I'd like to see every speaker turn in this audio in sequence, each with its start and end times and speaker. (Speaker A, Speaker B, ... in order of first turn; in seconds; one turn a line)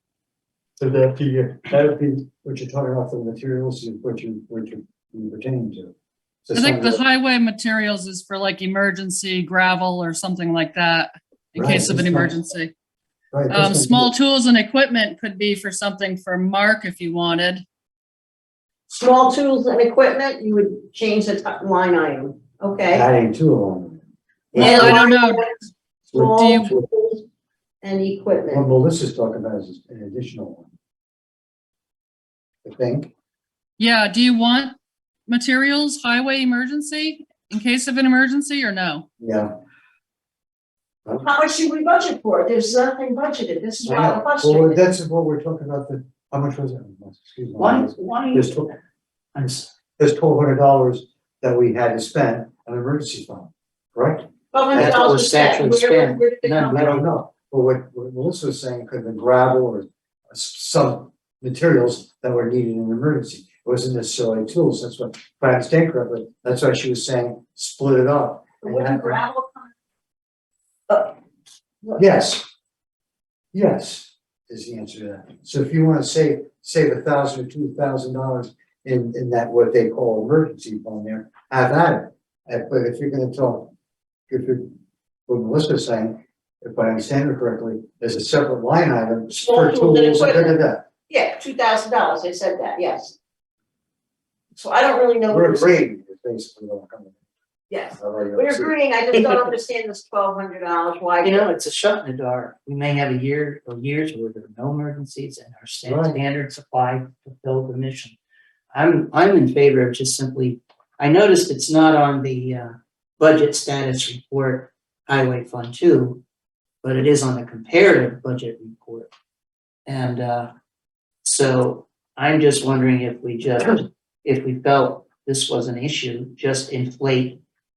Speaker A: 0.8-7.0
Speaker B: 6.5-12.7
Speaker A: 11.6-12.4
Speaker A: 13.3-14.1
Speaker B: 13.5-17.6
Speaker C: 18.9-23.1
Speaker A: 22.9-24.0
Speaker C: 24.5-27.2
Speaker A: 24.5-25.0
Speaker B: 24.6-25.5
Speaker A: 26.1-26.8
Speaker B: 26.3-26.7
Speaker C: 27.8-28.6
Speaker A: 28.5-30.7
Speaker A: 32.6-33.1
Speaker B: 33.8-34.8
Speaker B: 35.3-39.0
Speaker A: 39.2-39.5
Speaker C: 41.2-44.8
Speaker A: 43.8-48.7
Speaker D: 47.6-48.8
Speaker D: 49.3-49.7
Speaker A: 50.0-55.0
Speaker C: 54.5-56.9
Speaker D: 54.7-57.1
Speaker A: 56.7-69.2
Speaker C: 68.6-69.7
Speaker C: 70.9-71.2
Speaker A: 72.0-72.5
Speaker A: 73.5-83.7
Speaker A: 84.3-84.7
Speaker A: 85.3-90.8
Speaker C: 89.4-93.2
Speaker C: 94.5-95.8
Speaker A: 95.3-97.2
Speaker C: 97.7-101.5
Speaker A: 98.0-98.7
Speaker D: 101.2-108.2
Speaker A: 105.8-106.2
Speaker D: 108.7-116.2
Speaker D: 116.8-119.1
Speaker D: 119.8-120.5
Speaker D: 121.2-127.4